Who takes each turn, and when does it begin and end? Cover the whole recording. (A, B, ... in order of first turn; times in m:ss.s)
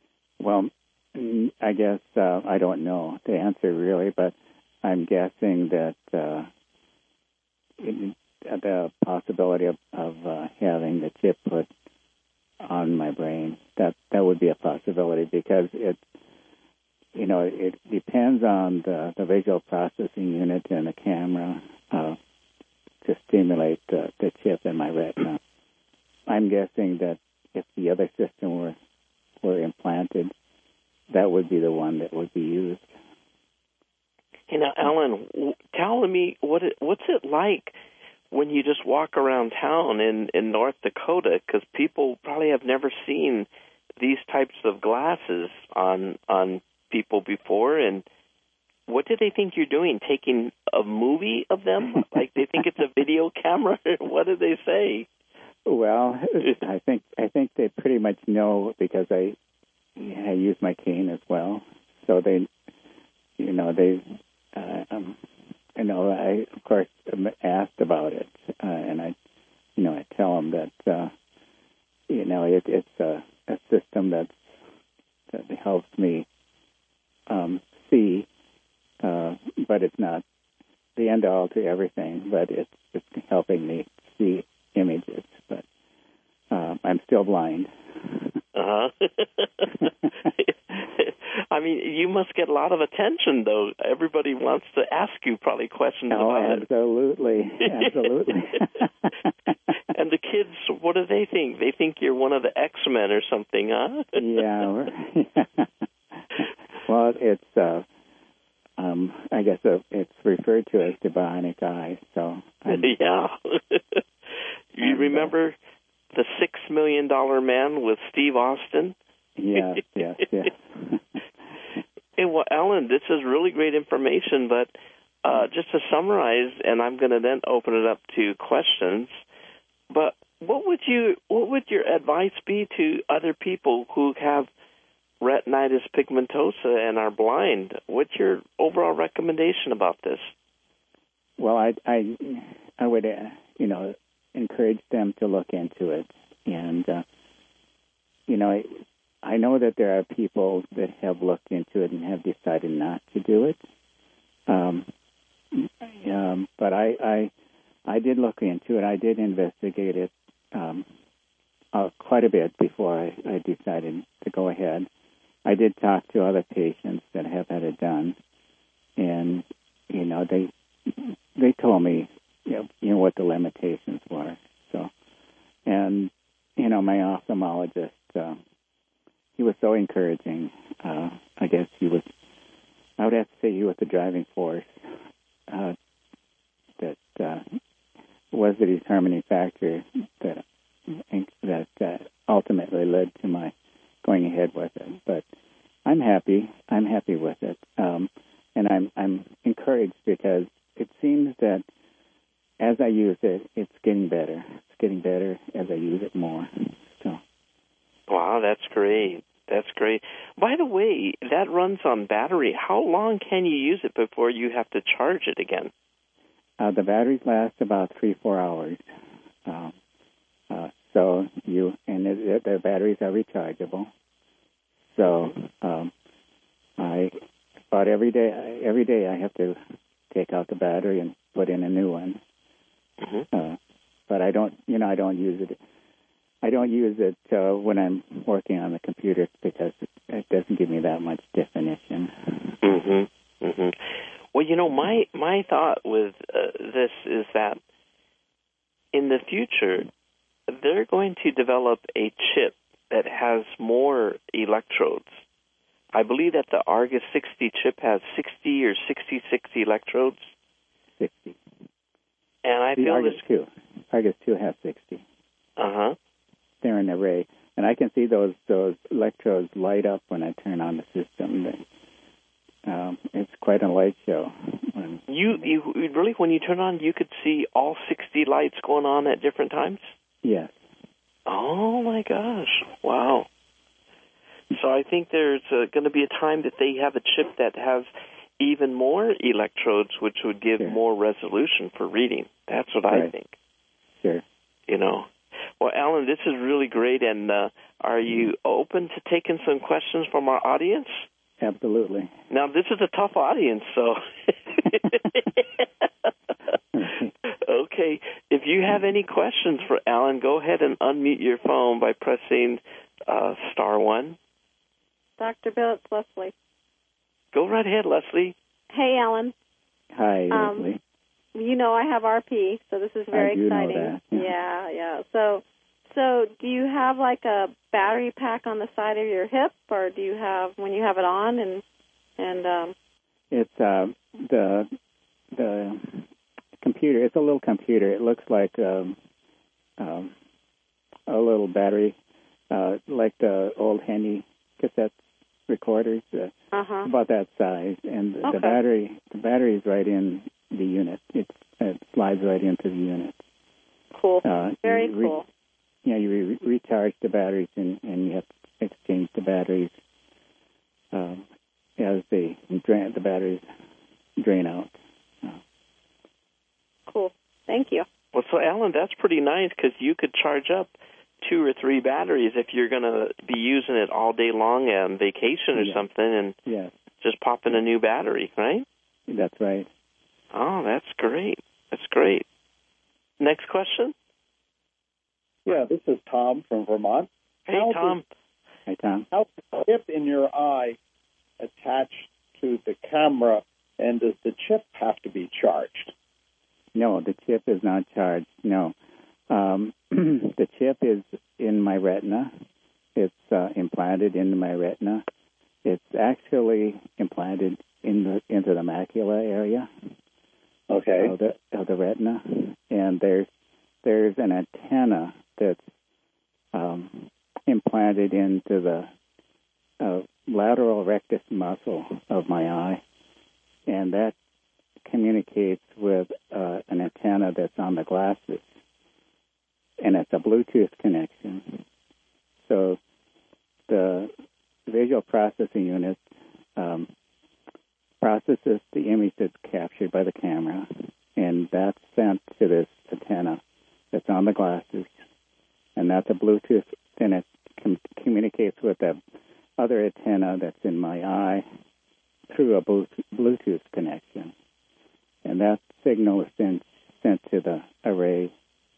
0:00.4-0:06.5 A
0:07.8-0:11.7 A
0:12.6-0:16.0 A
0:17.1-0:22.2 A
0:23.0-0:25.4 A
0:26.3-0:28.8 A
0:29.4-0:30.3 A
0:31.1-0:32.9 A
0:34.5-0:37.8 B
0:38.3-0:48.1 B
0:48.9-0:55.1 B
0:55.6-0:59.4 A
1:00.0-1:02.5 A
1:03.4-1:05.2 A
1:05.8-1:09.2 A
1:09.8-1:11.1 A
1:12.1-1:14.5 A
1:15.3-1:16.3 A
1:17.3-1:18.3 A
1:19.0-1:20.2 A
1:21.0-1:25.7 A
1:26.5-1:28.4 A
1:28.6-1:36.6 B
1:36.1-1:39.5 A
1:39.9-1:44.4 B
1:44.2-1:47.9 A
1:48.8-1:52.9 A
1:52.7-1:54.0 B
1:54.8-1:55.6 B
1:54.8-1:55.3 A
1:56.1-1:59.0 B
1:59.4-2:01.2 A
2:02.2-2:04.7 B
2:05.2-2:09.2 B
2:09.9-2:14.5 B
2:15.2-2:20.3 B
2:21.4-2:27.0 A
2:28.3-2:33.6 A
2:34.5-2:34.9 A
2:35.5-2:37.3 A
2:37.9-2:40.9 A
2:41.7-2:44.9 A
2:45.4-2:48.2 A
2:49.0-2:54.9 A
2:55.7-2:58.4 A
2:59.4-3:02.1 A
3:03.0-3:04.8 A
3:05.5-3:05.8 A
3:06.8-3:07.6 A
3:08.3-3:15.2 A
3:15.9-3:21.6 A
3:22.6-3:27.2 A
3:28.1-3:35.7 B
3:36.6-3:38.9 A
3:39.4-3:39.8 A
3:40.5-3:43.9 A
3:44.9-3:45.9 A
3:45.0-3:45.3 B
3:46.8-3:47.2 A
3:47.7-3:49.6 A
3:50.1-3:52.2 A
3:53.0-3:53.3 B
3:53.3-3:55.6 A
3:56.4-4:02.6 A
4:02.6-4:07.6 B
4:08.9-4:09.9 B
4:10.5-4:15.2 B
4:15.9-4:20.3 B
4:21.0-4:21.4 A
4:22.4-4:23.2 B
4:22.8-4:25.0 A
4:25.6-4:26.0 B
4:26.6-4:31.6 A
4:32.6-4:35.5 A
4:35.1-4:39.9 B
4:40.2-4:40.6 A
4:41.3-4:43.3 B
4:44.5-4:53.3 B
4:54.7-5:01.1 B
5:01.4-5:02.1 A
5:02.3-5:06.1 B
5:06.7-5:07.1 A
5:07.2-5:14.2 B
5:15.2-5:16.3 C
5:17.3-5:18.4 B
5:18.7-5:19.3 C
5:19.9-5:20.8 A
5:20.3-5:20.7 C
5:21.4-5:31.6 C
5:23.1-5:24.3 A
5:32.2-5:32.7 C
5:33.3-5:34.7 A
5:35.3-5:36.1 A
5:36.6-5:39.0 A
5:39.8-5:40.1 A
5:41.1-5:42.0 A
5:42.5-5:53.2 A
5:46.5-5:46.9 C
5:48.2-5:48.6 C
5:53.9-5:55.2 C
5:54.2-5:55.2 A
5:55.8-5:59.8 A
6:00.9-6:01.3 A
6:01.8-6:03.4 A
6:04.2-6:05.4 A
6:06.9-6:07.8 C
6:08.1-6:16.4 B
6:15.6-6:15.8 A
6:16.5-6:16.8 A
6:17.0-6:18.7 B
6:19.1-6:19.7 A
6:20.3-6:22.2 B
6:23.2-6:23.9 B
6:25.4-6:28.0 D
6:27.5-6:28.1 B
6:28.7-6:29.1 A
6:29.1-6:30.8 D
6:31.4-6:35.9 D
6:36.7-6:38.8 A
6:39.3-6:42.3 A
6:43.0-6:45.0 A
6:45.6-6:49.7 A
6:50.7-6:51.1 D
6:51.0-6:53.3 A
6:53.8-6:55.7 A
6:56.5-6:58.9 A
6:59.8-7:02.8 A
7:03.7-7:04.2 A
7:04.8-7:08.6 A
7:09.8-7:11.6 A
7:12.4-7:12.8 A
7:13.7-7:14.1 A
7:14.7-7:16.9 A
7:18.0-7:23.4 A
7:23.9-7:24.9 A
7:25.8-7:29.0 A
7:29.6-7:31.4 A
7:32.3-7:34.3 A
7:35.2-7:38.3 A